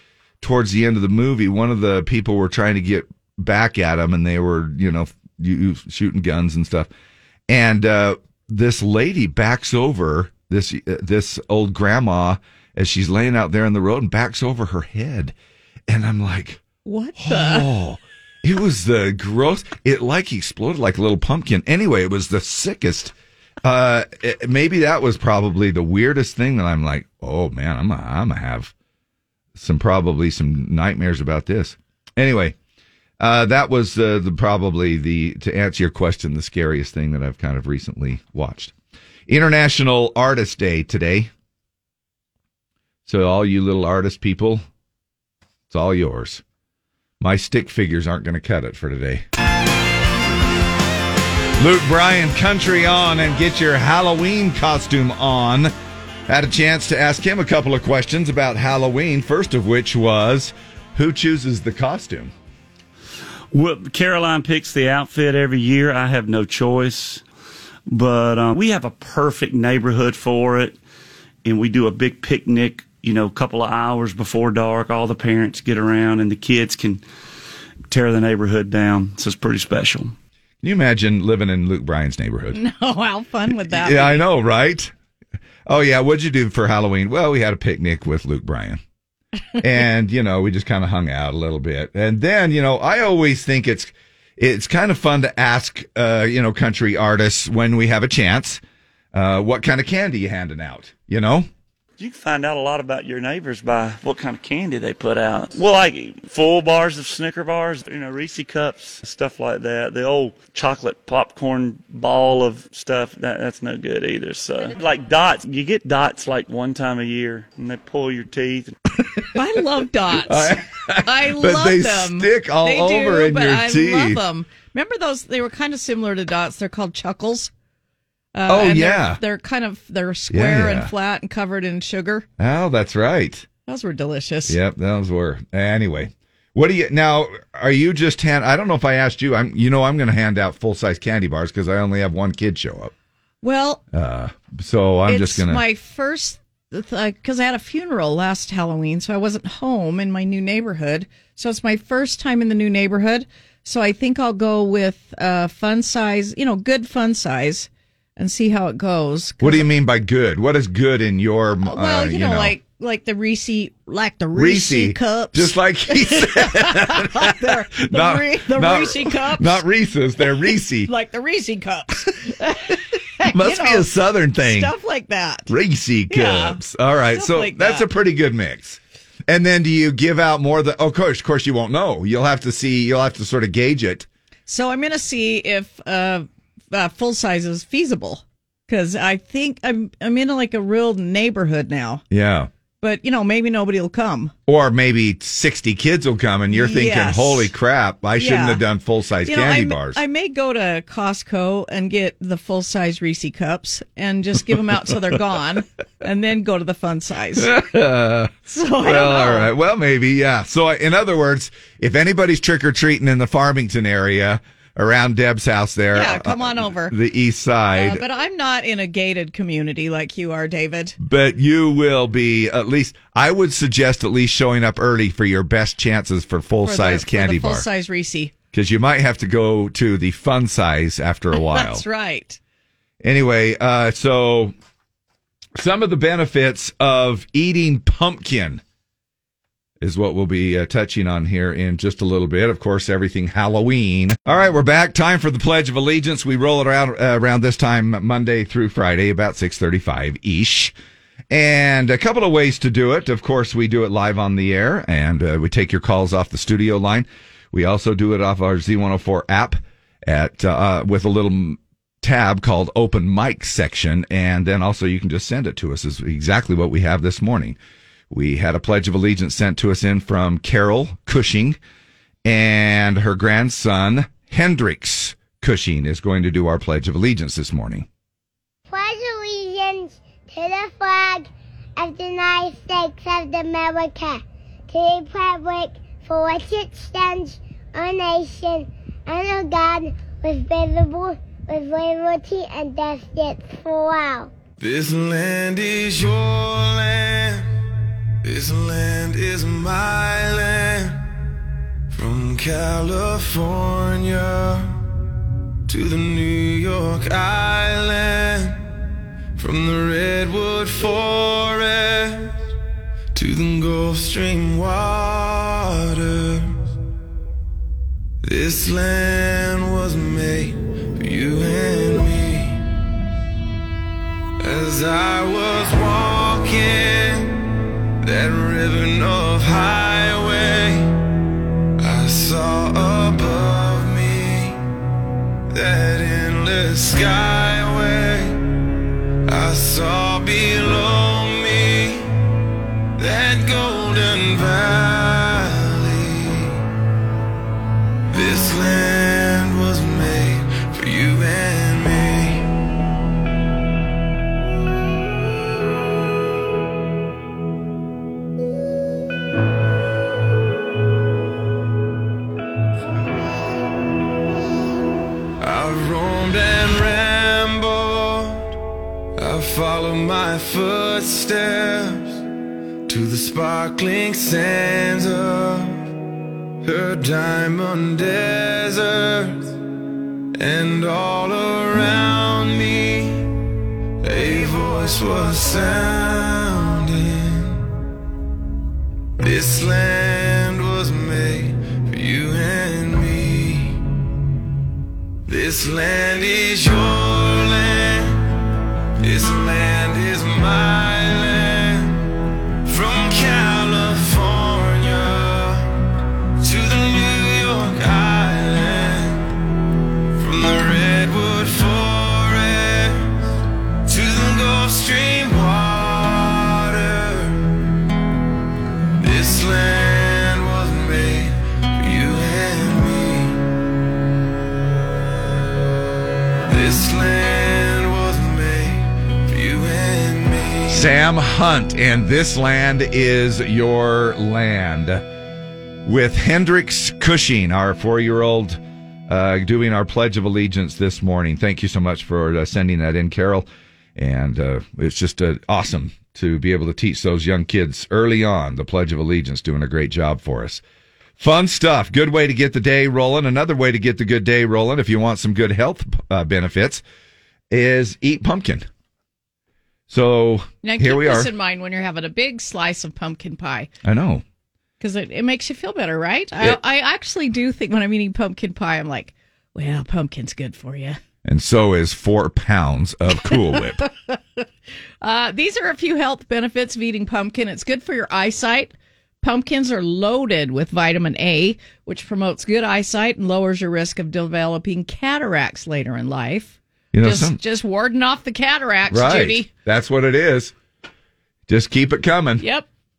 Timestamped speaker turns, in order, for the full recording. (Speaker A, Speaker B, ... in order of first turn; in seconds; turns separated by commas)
Speaker A: 0.4-6.9, Speaker A: 7.5-15.3, Speaker A: 15.9-16.6, Speaker B: 16.9-17.7, Speaker A: 17.2-28.7, Speaker A: 29.6-32.6, Speaker A: 33.2-38.7, Speaker A: 39.3-41.3, Speaker A: 43.1-44.6, Speaker A: 45.7-46.4, Speaker A: 47.2-49.2, Speaker A: 51.6-55.7, Speaker A: 56.3-62.3, Speaker C: 63.5-67.2, Speaker C: 67.9-70.8, Speaker C: 71.5-77.0, Speaker C: 77.9-80.2, Speaker A: 80.6-82.6, Speaker B: 82.5-84.3, Speaker A: 83.6-84.9, Speaker A: 85.7-88.8, Speaker A: 89.6-98.6, Speaker A: 99.1-101.5, Speaker C: 102.0-118.8, Speaker B: 119.3-127.5, Speaker A: 120.3-124.2, Speaker B: 128.3-132.3, Speaker A: 128.5-129.2, Speaker A: 130.3-130.9, Speaker A: 132.4-133.5, Speaker B: 133.7-134.6, Speaker A: 134.5-142.9, Speaker B: 143.4-143.8, Speaker A: 143.9-145.6, Speaker B: 145.1-159.7, Speaker A: 159.4-162.6, Speaker B: 161.7-169.6, Speaker A: 164.3-170.9, Speaker B: 170.9-173.9, Speaker A: 173.3-174.7, Speaker B: 174.4-175.5, Speaker A: 175.5-184.1, Speaker B: 176.1-176.6, Speaker B: 177.1-177.9, Speaker B: 184.5-192.0, Speaker A: 192.1-192.5, Speaker B: 192.8-194.3, Speaker A: 194.5-200.0, Speaker B: 196.5-197.5, Speaker B: 198.2-198.6, Speaker B: 199.3-207.5, Speaker A: 207.4-218.0, Speaker B: 208.5-209.5, Speaker B: 215.9-216.9, Speaker B: 217.7-221.0, Speaker A: 221.0-227.7, Speaker B: 226.6-228.3, Speaker A: 228.5-231.8, Speaker B: 231.3-232.4, Speaker A: 233.0-234.5, Speaker A: 235.6-238.6, Speaker A: 239.8-250.7, Speaker A: 251.3-267.6, Speaker A: 268.1-271.6, Speaker A: 272.2-277.9, Speaker D: 278.7-294.3, Speaker E: 294.6-297.5, Speaker E: 298.2-301.1, Speaker E: 301.9-304.8, Speaker E: 305.7-308.6, Speaker E: 309.4-312.4, Speaker E: 313.1-316.7, Speaker E: 318.2-322.6, Speaker E: 324.4-327.4, Speaker E: 328.0-330.9, Speaker E: 331.8-334.6, Speaker E: 335.5-338.4, Speaker E: 339.3-342.1, Speaker E: 343.0-346.6, Speaker E: 348.1-352.5, Speaker E: 365.4-368.5, Speaker E: 369.2-372.2, Speaker E: 372.9-375.9, Speaker E: 376.6-379.5, Speaker E: 380.4-383.3, Speaker E: 384.0-387.7, Speaker E: 389.2-393.8, Speaker E: 395.3-398.3, Speaker E: 399.0-402.0, Speaker E: 402.7-405.7, Speaker E: 406.4-409.3, Speaker E: 410.2-413.3, Speaker E: 413.9-417.6, Speaker E: 419.0-423.4, Speaker E: 426.5-430.9, Speaker A: 430.7-435.1, Speaker A: 435.9-450.6, Speaker A: 451.2-456.8, Speaker A: 457.5-458.7, Speaker A: 459.9-461.3, Speaker B: 460.6-463.7, Speaker A: 463.8-464.2, Speaker B: 464.8-471.0, Speaker A: 471.2-473.8, Speaker B: 475.0-489.5, Speaker A: 486.9-487.4, Speaker A: 488.9-490.5, Speaker A: 491.5-492.4, Speaker B: 492.4-492.7